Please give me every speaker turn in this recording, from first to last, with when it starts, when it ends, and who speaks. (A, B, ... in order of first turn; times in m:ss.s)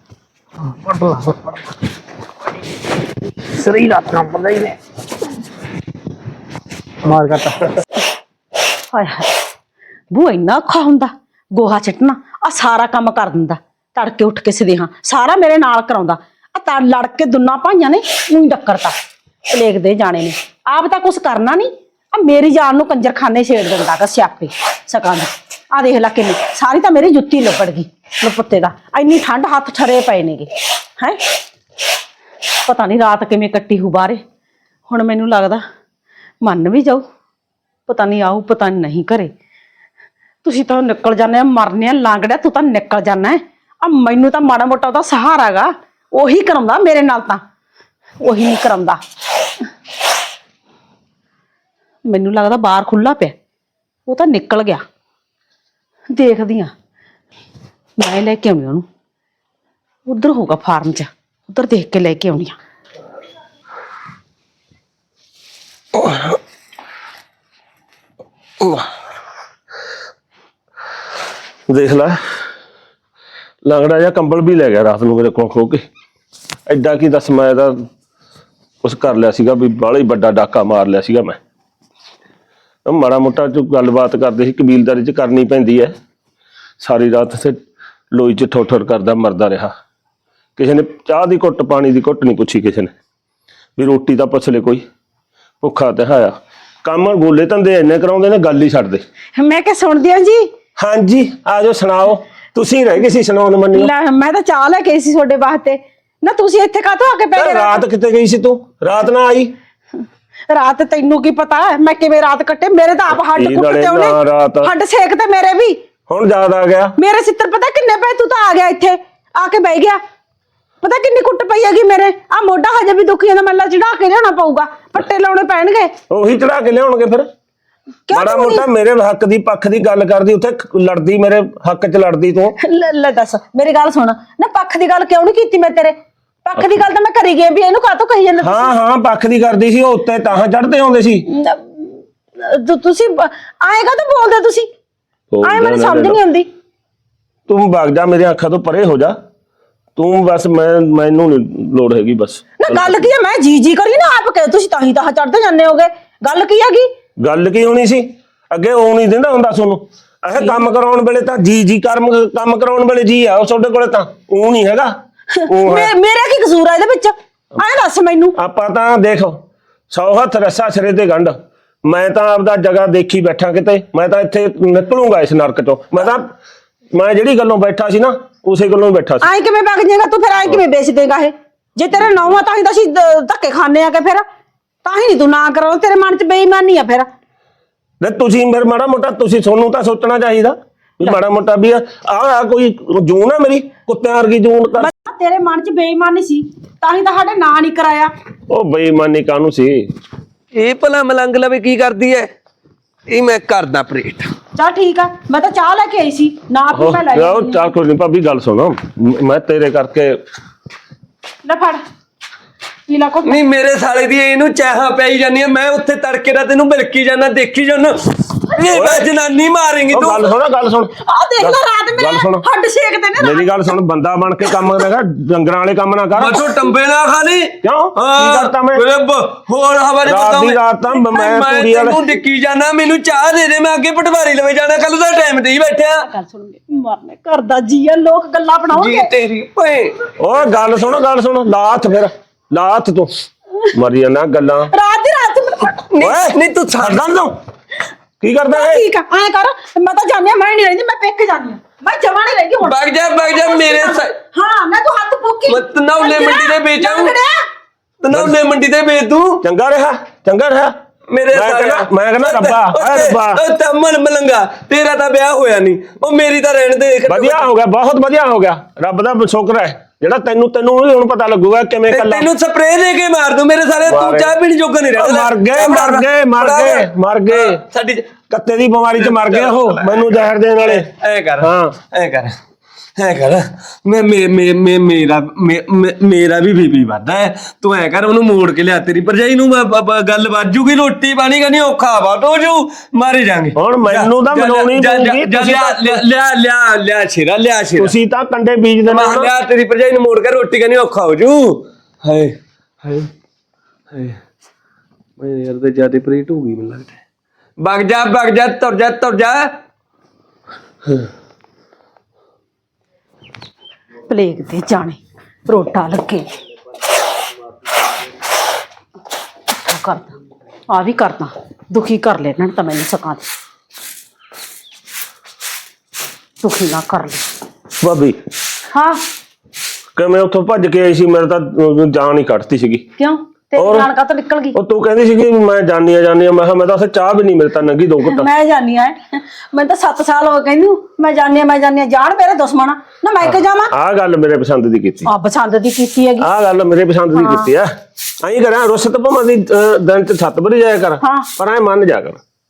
0:00.6-0:01.7 A
0:03.4-0:04.8 A
0:07.0-0:07.7 A
0:08.9-0:09.4 B
0:10.1-0:18.9 B
0:19.5-0:31.2 B
0:32.6-0:34.2 B
0:34.9-0:35.6 B
0:36.4-0:37.0 B
0:37.9-0:39.3 B
0:40.4-0:47.4 B
0:48.2-0:49.0 B
0:52.1-0:53.4 B
0:54.1-0:54.8 B
0:56.1-0:56.7 B
0:58.0-0:58.8 B
1:00.1-1:02.6 B
1:06.0-1:06.4 C
1:08.6-1:08.9 C
1:11.7-1:12.2 C
1:13.6-1:15.8 C
1:16.7-1:17.8 C
1:18.8-1:21.4 C
1:22.9-1:25.9 C
1:26.8-1:27.6 C
1:28.1-1:29.7 C
1:30.6-1:32.9 C
1:33.8-1:34.8 C
1:35.6-1:39.0 C
1:39.4-1:40.5 B
1:40.8-1:43.9 C
1:43.7-1:47.8 B
1:47.4-1:49.5 C
1:50.5-1:55.8 B
1:53.1-1:54.7 C
1:56.1-1:57.0 C
1:57.0-2:00.0 B
2:00.8-2:05.9 B
2:06.1-2:07.3 C
2:08.1-2:08.7 B
2:08.1-2:12.6 C
2:12.6-2:18.7 B
2:18.4-2:21.3 C
2:21.3-2:24.7 B
2:25.3-2:26.2 C
2:25.4-2:26.5 B
2:27.5-2:29.2 C
2:30.0-2:33.0 C
2:32.6-2:36.9 B
2:37.2-2:44.9 C
2:45.4-2:48.4 B
2:45.5-2:45.9 C
2:48.4-2:56.3 C
2:56.9-2:59.3 C
2:59.2-3:04.2 B
3:04.8-3:07.1 B
3:08.0-3:14.9 C
3:14.8-3:18.1 B
3:18.5-3:19.8 C
3:20.6-3:22.3 D
3:23.1-3:24.3 D
3:24.6-3:27.7 B
3:26.7-3:30.2 C
3:31.4-3:31.8 B
3:32.9-3:33.4 B
3:33.2-3:40.3 D
3:38.7-3:39.1 C
3:39.9-3:42.4 C
3:41.0-3:43.7 B
3:43.2-3:46.5 C
3:46.2-3:56.1 D
3:47.6-3:48.8 C
3:50.0-3:52.0 C
3:56.0-3:59.1 B
3:58.7-4:00.1 D
4:00.2-4:03.1 C
4:03.7-4:04.7 C
4:04.7-4:05.8 B
4:05.9-4:07.1 D
4:06.0-4:07.4 C
4:08.2-4:08.8 C
4:08.5-4:17.4 B
4:12.6-4:14.1 D
4:15.5-4:17.2 D
4:18.0-4:19.4 D
4:18.1-4:18.4 C
4:19.4-4:20.8 C
4:21.1-4:27.5 D
4:21.3-4:23.4 C
4:27.1-4:32.3 C
4:31.9-4:38.1 D
4:33.9-4:34.4 C
4:34.9-4:37.6 C
4:38.3-4:40.9 C
4:39.0-4:42.4 D
4:41.4-4:41.8 C
4:43.0-4:57.9 D
4:53.6-4:56.0 C
4:57.8-4:59.3 C
4:58.9-5:03.1 D
5:03.9-5:04.2 D
5:05.2-5:07.0 D
5:07.6-5:09.5 D
5:14.1-5:16.3 B
5:19.6-5:20.2 B
5:20.7-5:23.2 B
5:26.4-5:27.2 B
5:27.8-5:28.2 C
5:28.7-5:29.0 B
5:30.0-5:32.9 C
5:33.0-5:34.6 B
5:33.6-5:33.9 C
5:34.6-5:38.3 C
5:38.0-5:43.7 B
5:43.7-5:45.1 C
5:45.0-5:46.3 B
5:46.2-5:52.2 C
5:47.1-5:47.5 B
5:51.0-5:51.3 B